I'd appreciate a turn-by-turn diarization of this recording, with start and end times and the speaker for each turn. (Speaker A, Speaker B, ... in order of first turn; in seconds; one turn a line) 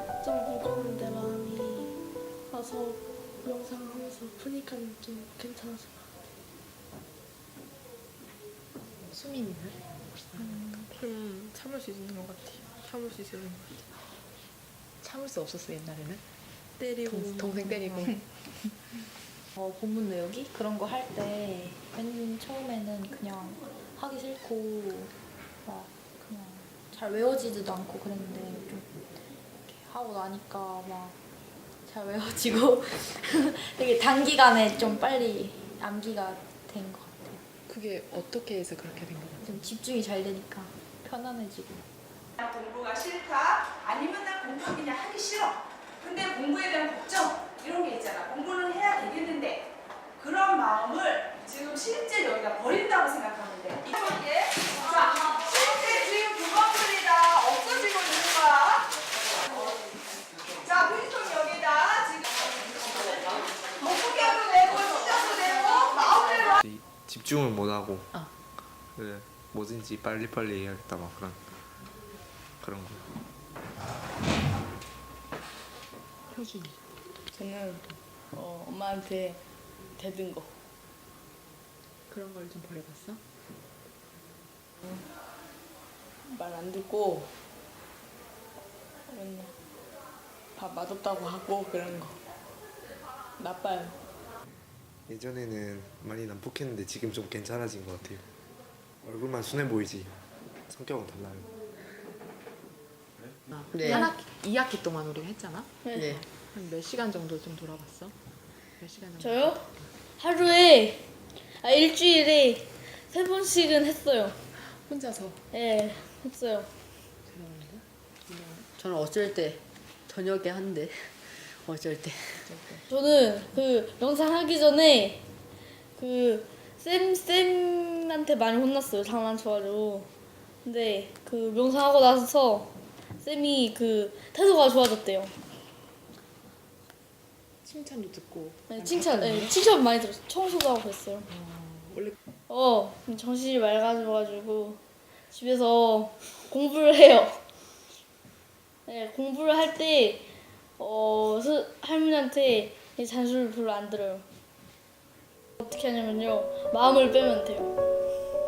Speaker A: 0.2-2.0
Speaker A: 2.5-6.1
Speaker B: 9.1-9.8
Speaker B: 10.3-10.8
Speaker C: 11.0-13.9
Speaker B: 15.0-16.2
Speaker B: 17.1-18.2
Speaker C: 17.1-17.9
Speaker D: 19.6-31.2
Speaker D: 31.9-37.4
Speaker B: 37.7-39.7
Speaker D: 39.4-41.8
Speaker E: 42.4-49.7
Speaker E: 50.2-58.9
Speaker E: 60.6-66.6
Speaker F: 66.6-68.1
Speaker F: 69.0-71.6
Speaker F: 72.6-73.1
Speaker B: 76.3-76.8
Speaker G: 77.3-77.8
Speaker G: 78.3-79.4
Speaker G: 80.0-80.5
Speaker B: 82.1-83.2
Speaker G: 86.3-87.3
Speaker G: 89.1-89.5
Speaker G: 90.6-92.1
Speaker G: 93.4-93.9
Speaker F: 95.1-98.3
Speaker F: 99.0-101.5
Speaker B: 103.5-108.2
Speaker H: 103.7-104.1
Speaker I: 105.9-106.1
Speaker H: 106.0-106.2
Speaker B: 108.8-109.9
Speaker I: 109.2-109.7
Speaker I: 110.2-114.4
Speaker B: 114.7-115.4
Speaker I: 115.5-116.7
Speaker B: 117.3-118.7
Speaker H: 118.8-122.6
Speaker B: 122.5-122.8
Speaker I: 122.9-125.2
Speaker I: 126.0-130.1
Speaker I: 130.6-135.3
Speaker B: 137.6-139.6
Speaker I: 138.7-141.3
Speaker B: 141.3-142.2
Speaker I: 142.5-147.4
Speaker I: 148.9-150.3
Speaker I: 150.8-154.3
Speaker I: 155.6-157.7